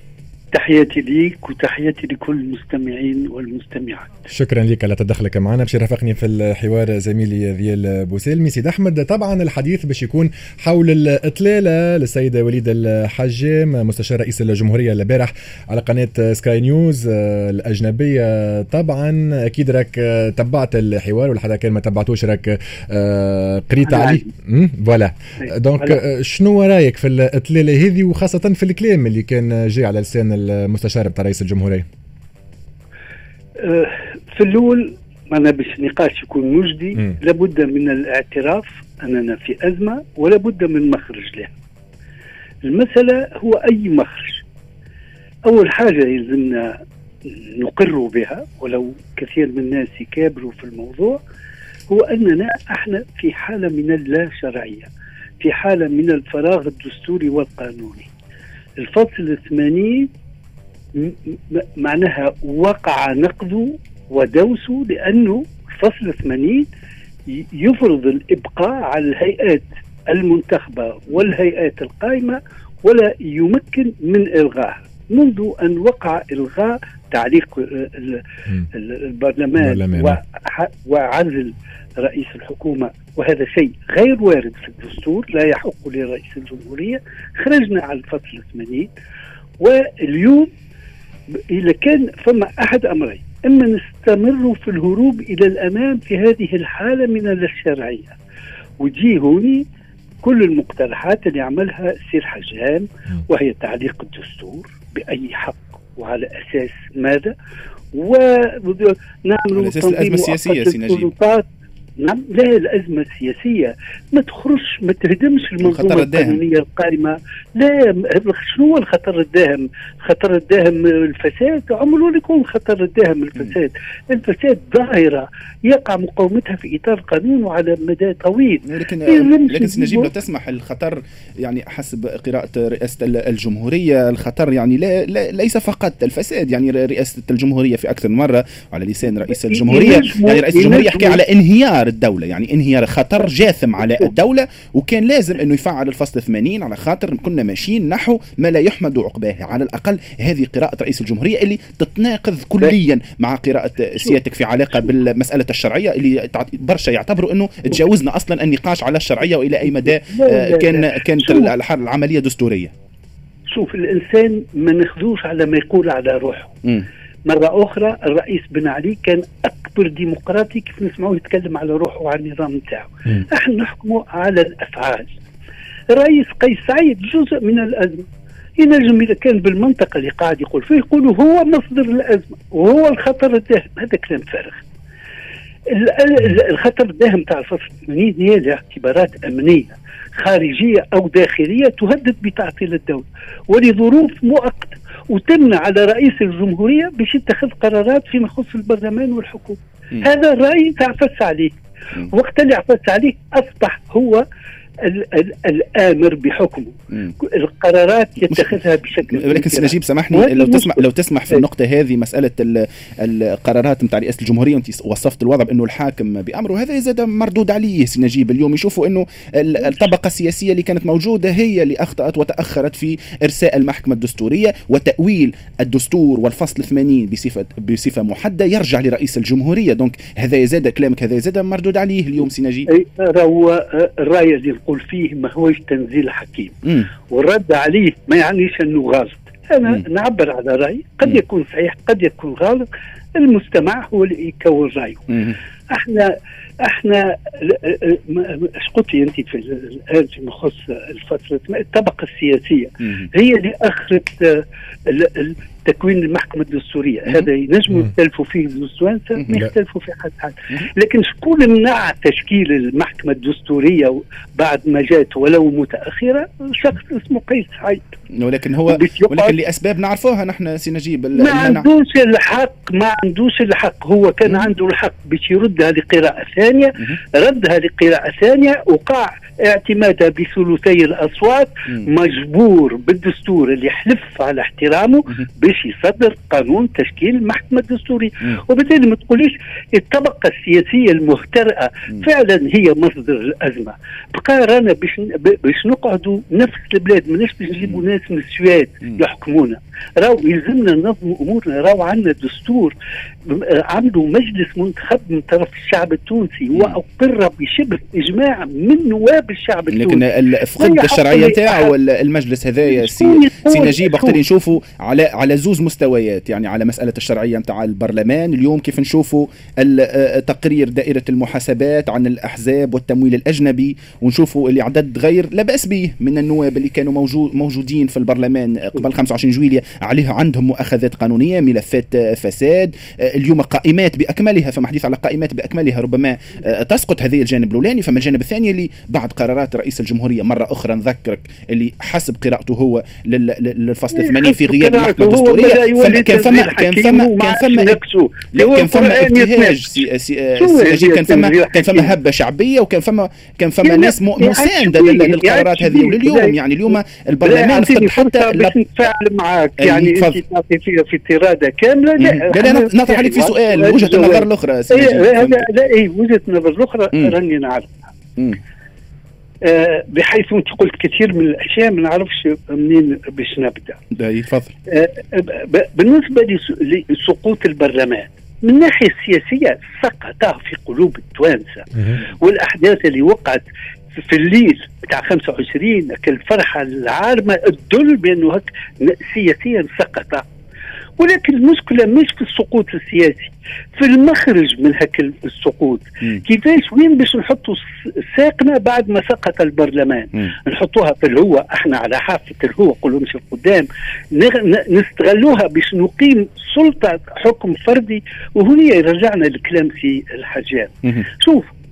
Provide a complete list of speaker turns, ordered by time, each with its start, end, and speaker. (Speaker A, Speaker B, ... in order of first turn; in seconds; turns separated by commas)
Speaker A: 0.5-4.3, Speaker B: 4.3-31.9, Speaker A: 23.8-24.3, Speaker A: 25.4-26.0, Speaker A: 33.6-41.5, Speaker A: 42.6-44.4, Speaker A: 45.5-51.2, Speaker A: 51.9-54.9, Speaker A: 55.4-58.1, Speaker A: 58.8-60.1, Speaker A: 60.9-66.7, Speaker A: 67.3-88.9, Speaker B: 79.6-80.2, Speaker A: 89.6-90.5, Speaker A: 91.5-98.2, Speaker A: 98.8-99.6, Speaker A: 100.2-107.3, Speaker A: 107.9-111.5, Speaker C: 109.5-111.1, Speaker A: 112.0-130.1, Speaker C: 115.6-116.4, Speaker C: 128.6-162.7, Speaker A: 139.3-141.2, Speaker A: 159.7-161.5, Speaker A: 163.5-166.6, Speaker A: 167.2-175.1, Speaker A: 175.9-178.1, Speaker A: 178.6-184.6, Speaker A: 185.7-204.2, Speaker A: 204.8-211.4, Speaker C: 209.1-232.7, Speaker A: 219.6-219.9, Speaker A: 232.7-236.6, Speaker A: 237.1-246.1, Speaker A: 246.6-267.9, Speaker C: 268.1-271.7, Speaker A: 268.6-269.4, Speaker A: 271.1-302.7, Speaker A: 303.2-311.8, Speaker C: 309.7-347.8, Speaker A: 312.6-314.2, Speaker A: 343.9-349.8, Speaker C: 348.3-358.5, Speaker A: 350.4-351.9, Speaker A: 353.6-356.4, Speaker A: 357.2-367.9, Speaker C: 359.6-360.2, Speaker C: 362.0-365.4, Speaker A: 369.4-373.8, Speaker C: 374.0-374.5, Speaker A: 374.7-383.4, Speaker A: 383.9-390.2, Speaker A: 391.0-411.5